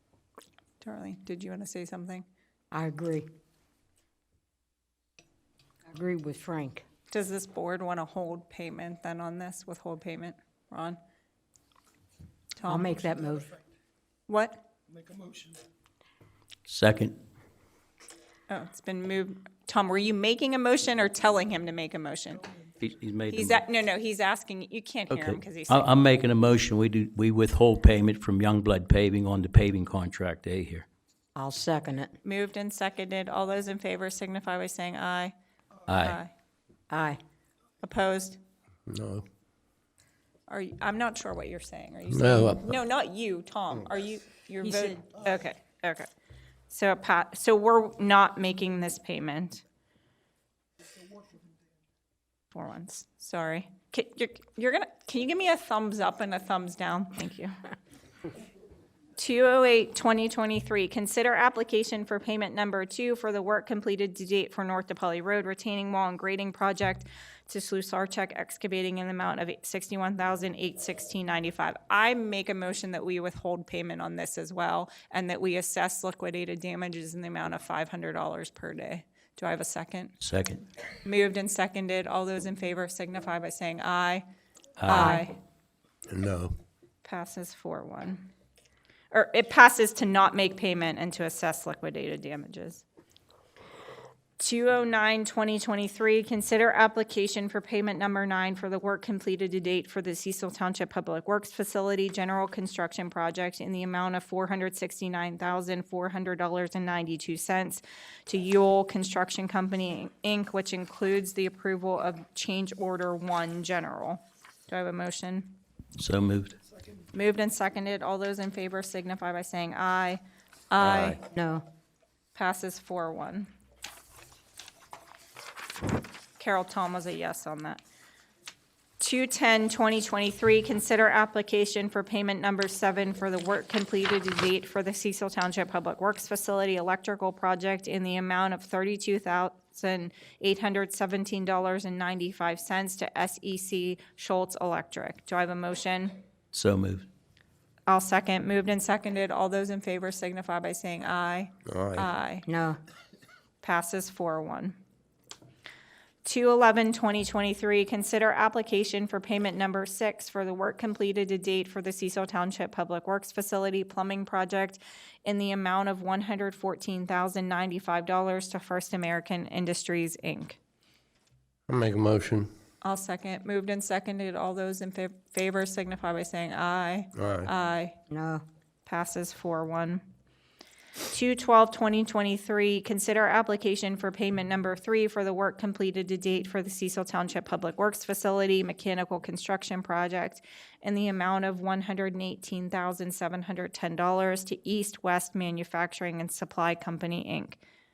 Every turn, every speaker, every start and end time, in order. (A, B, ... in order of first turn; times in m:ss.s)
0:00.8-0:02.2 A
0:02.7-0:03.3 B
0:05.9-0:06.8 B
0:07.1-0:11.0 A
0:12.6-0:12.9 A
0:12.7-0:13.6 B
0:14.3-0:14.6 A
0:16.7-0:17.2 C
0:18.5-0:22.5 A
0:22.8-0:23.6 C
0:23.3-0:26.0 A
0:25.1-0:30.9 C
0:31.4-0:32.1 B
0:32.2-0:35.3 A
0:35.9-0:36.2 C
0:36.0-0:36.3 A
0:36.9-0:37.2 B
0:37.8-0:38.4 A
0:38.9-0:39.3 D
0:40.5-0:46.1 A
0:42.1-0:42.7 D
0:46.7-0:49.6 A
0:52.5-0:57.6 A
0:59.2-1:20.1 A
1:20.2-1:20.6 C
1:21.0-1:24.2 A
1:24.8-1:25.2 C
1:24.8-1:25.3 A
1:24.9-1:25.2 B
1:26.1-1:26.6 D
1:27.0-1:28.3 A
1:29.1-1:32.8 A
1:34.4-1:55.6 A
1:56.0-1:56.6 C
1:57.1-2:00.2 A
2:00.7-2:01.2 A
2:00.8-2:01.2 C
2:01.3-2:01.6 B
2:02.3-2:03.5 A
2:06.4-2:07.8 A
2:09.0-2:26.2 A
2:26.5-2:27.1 C
2:27.9-2:32.5 A
2:31.6-2:32.1 D
2:32.4-2:32.8 B
2:33.6-2:34.8 A
2:36.2-2:50.6 A
2:51.7-2:52.5 D
2:52.8-2:58.0 A
2:57.1-2:57.5 D
2:58.1-2:58.4 B
2:58.8-3:00.0 A
3:01.1-3:17.6 A